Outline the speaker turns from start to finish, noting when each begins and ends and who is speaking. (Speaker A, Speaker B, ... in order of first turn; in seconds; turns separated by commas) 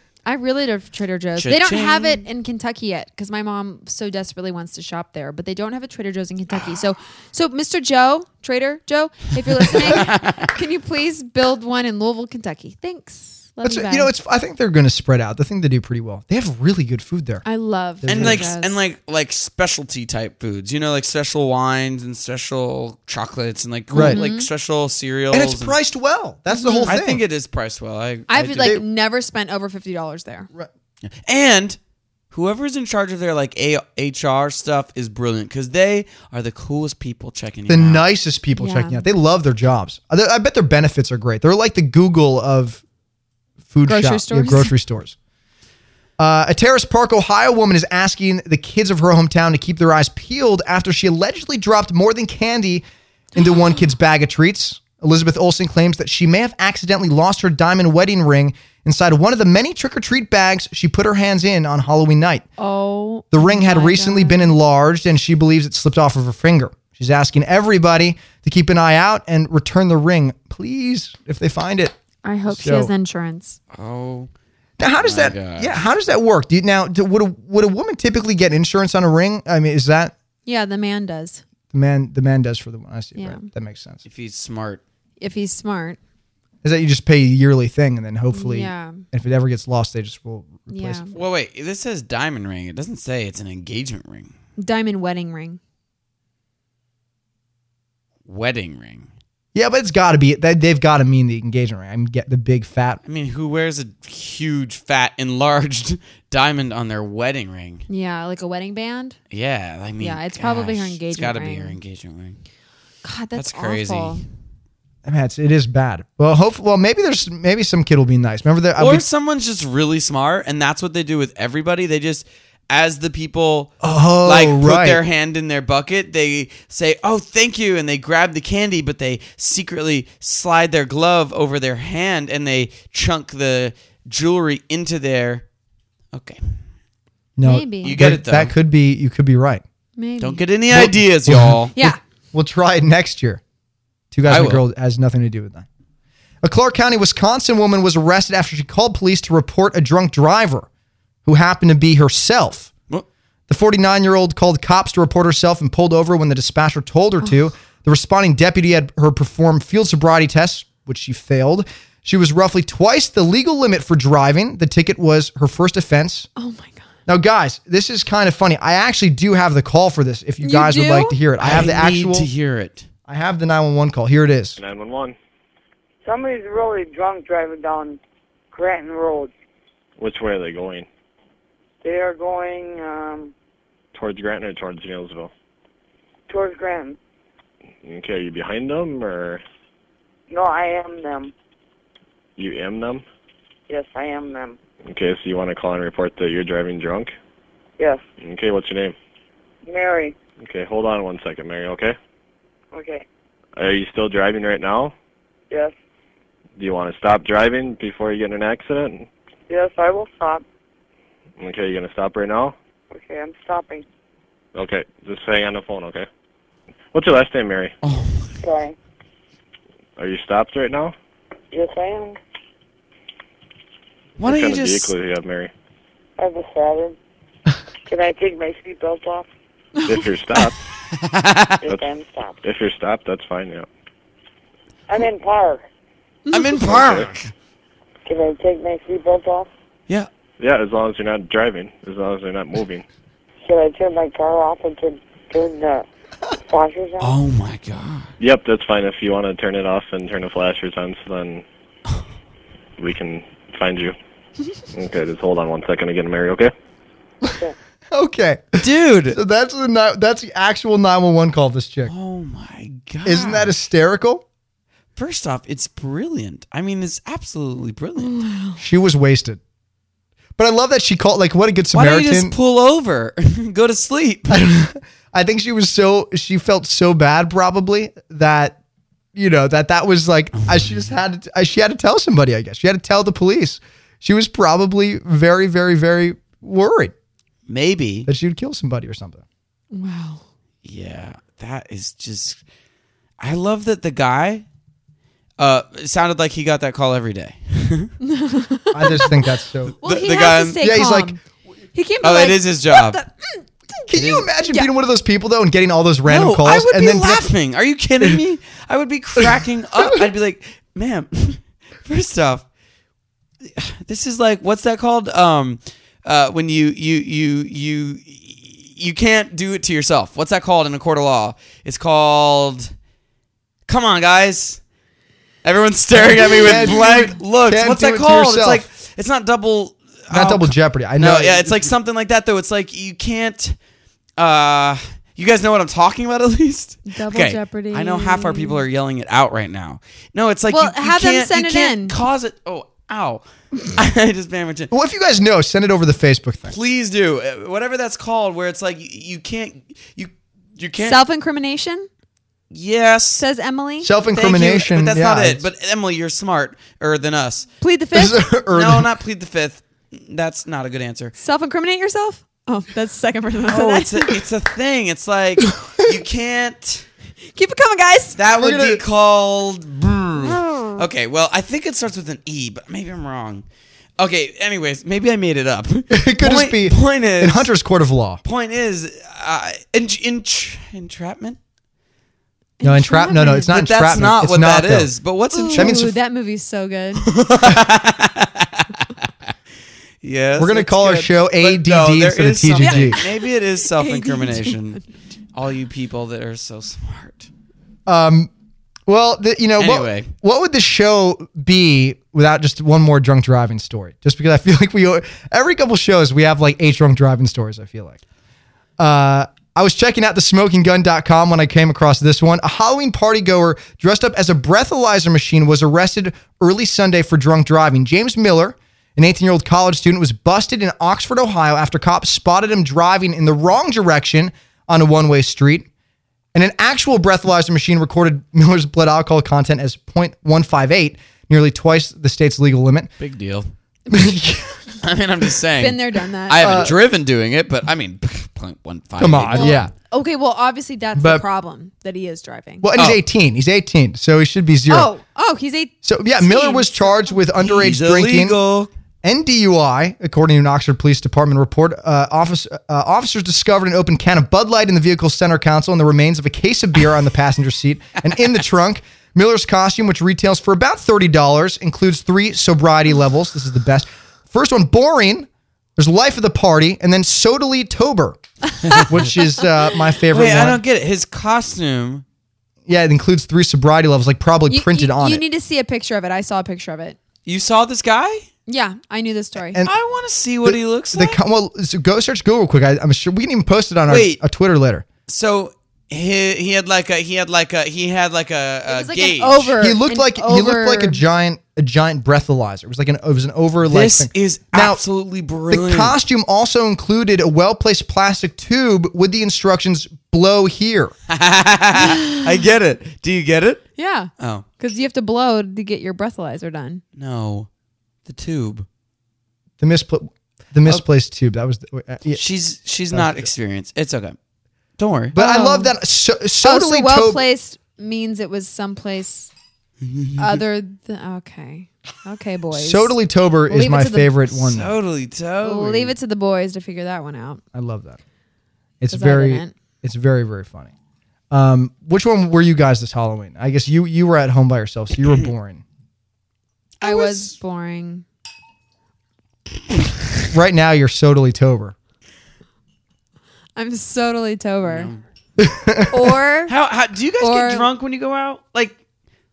Speaker A: 0.2-14.1, Speaker B: 1.4-2.2, Speaker B: 9.6-10.5, Speaker C: 13.6-17.4, Speaker A: 17.4-18.8, Speaker C: 18.0-18.5, Speaker B: 18.1-25.7, Speaker C: 23.9-24.2, Speaker A: 23.9-24.5, Speaker C: 25.3-27.2, Speaker A: 26.5-26.9, Speaker B: 26.8-28.8, Speaker A: 28.3-30.5, Speaker B: 31.0-31.8, Speaker B: 32.3-38.0, Speaker C: 37.7-42.8, Speaker A: 38.6-39.0, Speaker C: 43.7-45.1, Speaker A: 43.9-44.7, Speaker C: 46.2-62.4, Speaker A: 62.6-64.6, Speaker C: 63.3-72.9, Speaker A: 72.2-73.6, Speaker B: 73.7-74.3, Speaker C: 74.8-80.1, Speaker B: 75.0-75.8, Speaker A: 80.4-81.4, Speaker C: 81.7-84.0, Speaker A: 83.2-83.5, Speaker B: 84.0-84.8, Speaker A: 85.2-86.0, Speaker C: 86.6-91.1, Speaker A: 88.3-89.0, Speaker A: 90.7-91.1, Speaker B: 91.1-94.3, Speaker A: 94.6-95.6, Speaker B: 98.2-99.1, Speaker C: 99.5-103.0, Speaker B: 103.0-107.8, Speaker A: 107.9-109.2, Speaker B: 109.3-112.4, Speaker A: 110.0-111.8, Speaker A: 113.0-114.2, Speaker B: 113.3-114.2, Speaker C: 115.0-119.0, Speaker B: 118.8-135.4, Speaker C: 123.8-125.0, Speaker B: 136.1-136.6, Speaker C: 137.4-139.6, Speaker A: 137.4-138.0, Speaker B: 137.8-138.5, Speaker A: 140.0-140.4, Speaker B: 140.2-141.7, Speaker C: 140.7-143.4, Speaker C: 144.1-145.7, Speaker B: 144.3-144.6, Speaker C: 146.4-150.7, Speaker C: 151.2-152.7, Speaker C: 153.5-166.3, Speaker A: 166.3-166.9, Speaker C: 167.1-172.3, Speaker A: 170.4-171.2, Speaker B: 171.4-172.9, Speaker C: 173.1-174.6, Speaker D: 174.6-175.2, Speaker E: 176.0-178.0, Speaker E: 178.5-179.3, Speaker D: 180.0-180.9, Speaker E: 181.8-183.3, Speaker D: 183.9-185.3, Speaker E: 186.3-187.0, Speaker D: 187.8-189.4, Speaker E: 190.3-191.3, Speaker D: 192.4-193.0, Speaker E: 193.7-194.6, Speaker D: 194.8-197.1, Speaker E: 197.8-198.0, Speaker D: 198.2-198.9, Speaker E: 199.7-200.2, Speaker D: 200.4-202.0, Speaker E: 202.7-203.1, Speaker D: 203.6-204.9, Speaker D: 206.6-209.1, Speaker E: 209.5-210.4, Speaker D: 211.4-212.5, Speaker E: 212.9-213.8, Speaker D: 214.5-216.1, Speaker D: 216.9-217.8, Speaker B: 217.8-218.4, Speaker E: 218.4-218.7, Speaker D: 220.0-220.9, Speaker E: 221.5-222.2, Speaker B: 224.2-224.9, Speaker D: 224.2-225.5, Speaker E: 226.2-226.9, Speaker E: 227.9-229.3, Speaker D: 229.8-230.6, Speaker B: 230.9-231.6, Speaker E: 231.6-232.4, Speaker D: 232.4-233.7, Speaker E: 234.9-235.6, Speaker A: 236.3-236.6, Speaker B: 236.3-237.3, Speaker D: 236.6-237.1, Speaker E: 238.1-239.5, Speaker D: 240.4-242.8, Speaker E: 243.4-245.8, Speaker E: 246.5-247.2, Speaker B: 247.0-248.1, Speaker D: 248.2-251.4, Speaker D: 252.8-253.9, Speaker D: 254.7-256.5, Speaker C: 257.9-261.9, Speaker B: 258.6-259.2, Speaker B: 261.9-263.5, Speaker C: 263.0-264.2, Speaker B: 264.9-268.1, Speaker A: 268.0-268.6, Speaker C: 268.6-269.4, Speaker C: 270.4-272.3, Speaker B: 271.7-274.4, Speaker C: 274.3-278.6, Speaker C: 279.1-286.9, Speaker B: 280.4-280.8, Speaker B: 287.5-288.1, Speaker C: 288.0-289.2, Speaker A: 289.7-290.2, Speaker B: 290.6-292.4, Speaker B: 293.2-294.4, Speaker B: 295.4-297.9, Speaker A: 298.0-299.2, Speaker C: 298.7-299.8, Speaker B: 299.7-300.7, Speaker A: 299.8-301.2, Speaker C: 300.6-301.1, Speaker A: 301.7-303.9, Speaker B: 302.0-303.0, Speaker C: 303.9-307.3, Speaker B: 303.9-304.3, Speaker B: 306.1-312.4, Speaker C: 309.2-310.0, Speaker B: 313.4-322.7, Speaker B: 323.7-324.6, Speaker B: 325.4-333.5, Speaker C: 325.9-328.6, Speaker C: 330.1-331.7, Speaker B: 334.2-344.7, Speaker A: 336.9-338.6, Speaker A: 340.5-341.9, Speaker C: 344.7-346.6, Speaker B: 346.5-351.0, Speaker A: 350.8-351.9, Speaker B: 352.5-353.2, Speaker A: 353.1-353.9, Speaker C: 353.8-355.4, Speaker B: 354.1-357.5, Speaker A: 357.6-358.3, Speaker C: 357.9-358.9, Speaker B: 358.5-361.1, Speaker A: 361.2-364.1, Speaker B: 363.5-366.9, Speaker C: 365.6-366.0, Speaker A: 367.4-368.2, Speaker B: 368.2-373.4, Speaker C: 368.3-368.8, Speaker A: 370.2-370.8, Speaker B: 374.0-377.5, Speaker C: 375.9-378.2, Speaker B: 378.2-381.4, Speaker A: 382.6-383.6, Speaker C: 382.6-384.9, Speaker B: 383.4-385.8, Speaker A: 385.3-387.1, Speaker C: 385.5-385.9, Speaker B: 387.0-388.9, Speaker B: 390.0-394.8, Speaker C: 390.4-393.0, Speaker A: 392.6-394.6, Speaker B: 395.3-397.3, Speaker C: 397.9-398.3, Speaker C: 398.9-408.0, Speaker B: 399.6-400.1, Speaker C: 408.8-425.7, Speaker C: 426.3-432.9, Speaker B: 433.0-433.5, Speaker C: 433.9-434.6, Speaker B: 434.8-439.6, Speaker A: 435.6-436.7, Speaker C: 436.4-436.8, Speaker C: 439.0-439.7, Speaker A: 439.3-442.7, Speaker C: 441.0-441.2, Speaker C: 442.6-444.9, Speaker A: 444.7-447.2, Speaker C: 445.8-448.4, Speaker B: 447.4-448.7, Speaker C: 449.0-468.2, Speaker C: 468.8-470.6, Speaker B: 470.1-472.0, Speaker C: 472.6-475.2, Speaker A: 474.5-477.0, Speaker B: 477.2-478.3, Speaker A: 478.5-479.6, Speaker C: 479.4-479.7, Speaker B: 479.6-481.2, Speaker C: 480.4-484.8, Speaker B: 483.9-484.2, Speaker B: 485.1-489.5, Speaker A: 488.7-491.0, Speaker C: 489.6-494.8, Speaker B: 493.6-495.9, Speaker C: 495.5-500.9, Speaker B: 501.1-503.6, Speaker A: 501.8-502.2, Speaker A: 503.8-506.8, Speaker B: 504.2-504.4, Speaker B: 506.9-507.5, Speaker B: 508.1-508.6, Speaker C: 509.6-512.2, Speaker B: 512.1-514.1, Speaker C: 512.9-513.3, Speaker B: 514.8-515.1, Speaker C: 515.1-517.2, Speaker A: 515.1-515.7, Speaker A: 516.4-519.3, Speaker B: 519.8-520.4, Speaker A: 520.2-523.0, Speaker C: 522.5-524.7, Speaker A: 523.5-524.1, Speaker B: 524.3-525.9, Speaker A: 525.4-527.4, Speaker C: 527.5-528.0, Speaker C: 528.8-530.7, Speaker A: 528.9-529.5, Speaker C: 531.3-535.6, Speaker B: 536.8-537.3, Speaker A: 536.8-538.0, Speaker C: 540.3-541.7, Speaker A: 543.5-544.9, Speaker B: 544.6-545.0, Speaker C: 545.4-546.2, Speaker A: 545.9-546.5, Speaker B: 546.5-548.8, Speaker A: 547.2-547.7